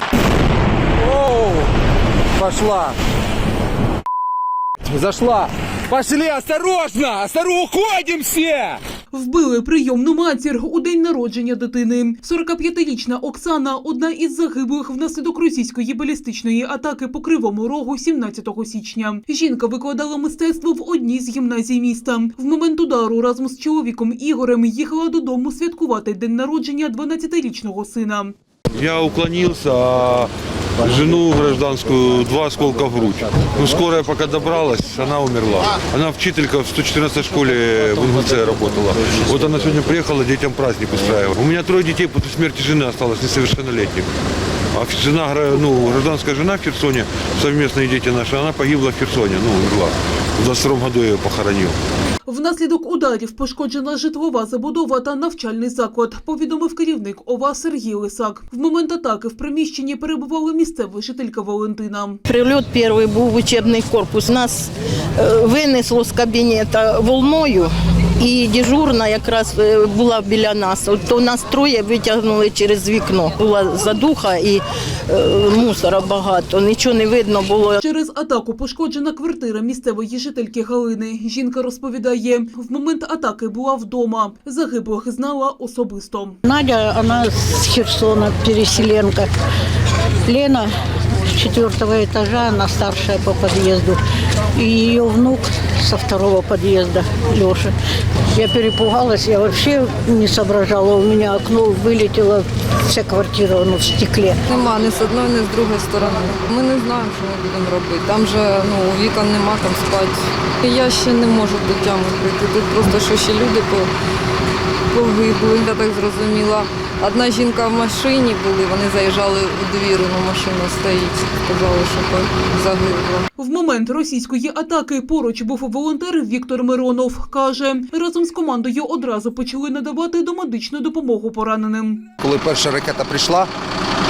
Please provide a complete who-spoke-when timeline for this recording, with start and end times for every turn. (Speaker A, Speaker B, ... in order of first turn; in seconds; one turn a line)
Speaker A: 1.0-1.7
Speaker A: 2.3-2.9
Speaker A: 4.9-8.8
Speaker B: 9.1-28.3
Speaker C: 28.7-44.1
Speaker C: 44.7-51.8
Speaker B: 52.2-62.2
Speaker D: 62.3-77.8
Speaker B: 77.8-86.4
Speaker E: 86.5-89.3
Speaker E: 90.3-90.7
Speaker E: 91.4-94.0
Speaker E: 94.6-97.7
Speaker E: 98.4-104.3
Speaker F: 104.5-113.9
Speaker F: 114.9-123.3
Speaker B: 123.4-132.0
Speaker A: 132.2-133.5